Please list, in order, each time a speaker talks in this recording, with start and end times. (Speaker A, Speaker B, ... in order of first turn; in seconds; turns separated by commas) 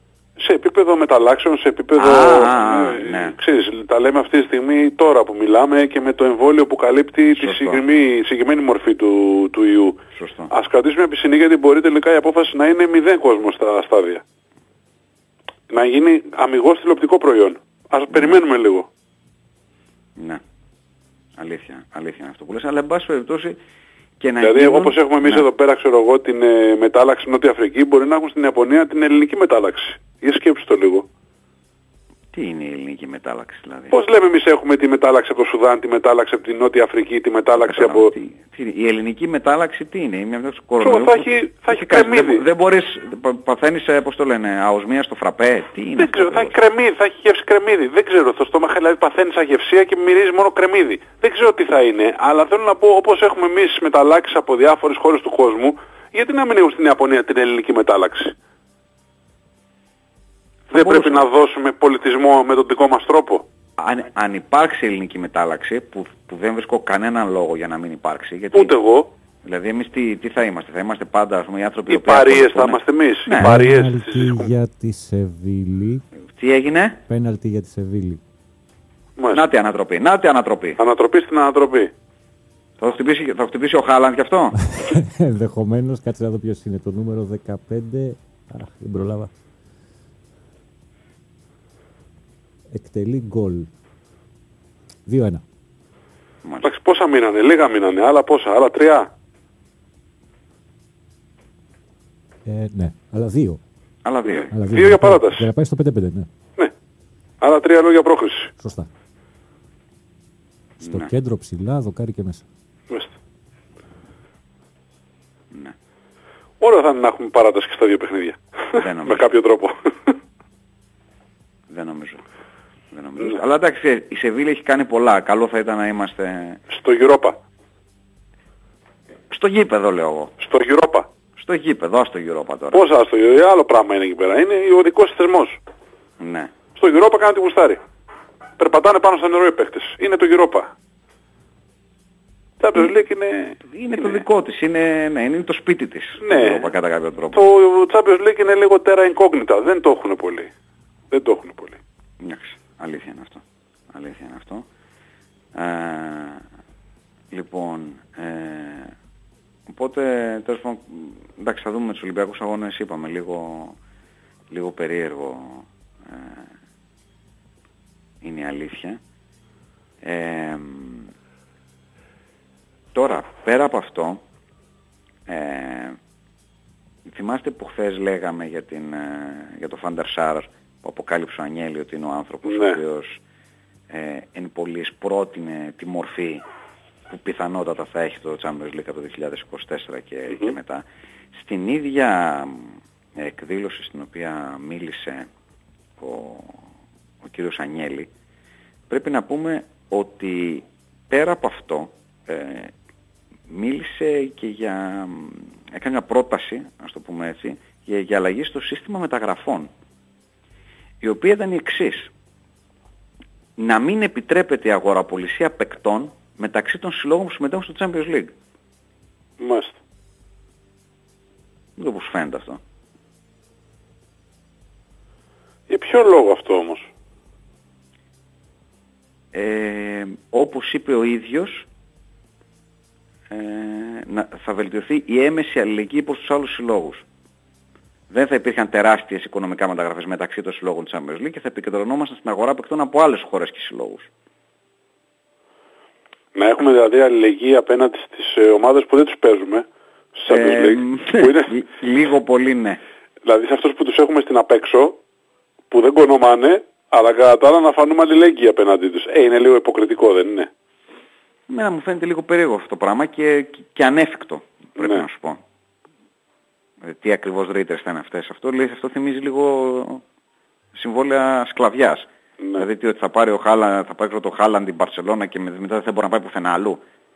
Speaker A: 0.4-10.0, Speaker B: 1.9-3.3, Speaker B: 7.3-7.8, Speaker B: 10.1-10.5, Speaker A: 10.5-14.2, Speaker A: 15.7-18.9, Speaker B: 18.1-18.4, Speaker B: 20.2-20.4, Speaker B: 21.4-23.6, Speaker B: 24.2-25.4, Speaker A: 24.4-31.1, Speaker B: 32.3-33.9, Speaker A: 33.9-38.1, Speaker B: 37.6-46.5, Speaker A: 40.8-42.4, Speaker A: 46.0-58.3, Speaker A: 60.7-63.4, Speaker B: 60.7-61.3, Speaker B: 63.8-68.7, Speaker A: 68.5-69.1, Speaker B: 69.4-73.6, Speaker A: 71.9-74.5, Speaker C: 73.4-76.0, Speaker B: 76.3-77.0, Speaker C: 77.1-78.2, Speaker A: 79.2-79.4, Speaker B: 79.3-80.8, Speaker A: 80.8-81.9, Speaker B: 82.8-84.6, Speaker C: 84.8-89.3, Speaker C: 92.7-93.7, Speaker C: 95.1-95.4, Speaker B: 96.4-96.7, Speaker A: 96.6-99.1, Speaker C: 102.4-103.6, Speaker B: 104.0-104.5, Speaker C: 104.5-106.3, Speaker A: 104.7-105.5, Speaker A: 107.4-108.5, Speaker C: 108.6-108.9, Speaker B: 110.8-111.1, Speaker C: 110.8-112.4, Speaker A: 112.9-113.1, Speaker A: 116.6-120.2, Speaker B: 118.8-119.3, Speaker B: 121.7-122.2, Speaker B: 122.9-126.6, Speaker A: 126.7-127.4, Speaker B: 129.3-130.3, Speaker A: 130.4-131.1, Speaker B: 131.3-132.8, Speaker A: 132.7-135.6, Speaker B: 136.2-136.5, Speaker A: 136.8-137.8, Speaker A: 138.6-140.7, Speaker A: 142.6-144.1, Speaker B: 143.7-147.5, Speaker A: 146.2-146.7, Speaker A: 147.3-150.5, Speaker A: 151.1-151.8, Speaker B: 152.2-154.7, Speaker B: 155.5-156.4, Speaker B: 157.3-158.9, Speaker B: 159.7-163.8, Speaker B: 164.5-166.5, Speaker B: 168.2-169.0, Speaker B: 170.0-171.1, Speaker B: 172.9-174.2, Speaker B: 175.3-176.0, Speaker B: 177.0-183.2, Speaker A: 182.4-182.8, Speaker B: 183.9-186.4, Speaker B: 187.1-195.3, Speaker B: 196.0-196.6, Speaker B: 197.2-198.1, Speaker B: 198.9-202.7, Speaker B: 203.5-209.7, Speaker B: 211.0-212.1, Speaker B: 213.6-218.3, Speaker A: 219.4-219.8, Speaker B: 221.8-222.6, Speaker A: 225.7-226.9, Speaker B: 229.3-231.7, Speaker B: 233.3-237.0, Speaker B: 238.1-244.1, Speaker A: 246.3-251.5, Speaker B: 250.3-252.8, Speaker A: 253.2-255.0, Speaker A: 255.7-260.5, Speaker B: 261.5-265.4, Speaker A: 264.8-265.0, Speaker B: 266.8-270.0, Speaker B: 270.7-276.8, Speaker A: 272.4-272.6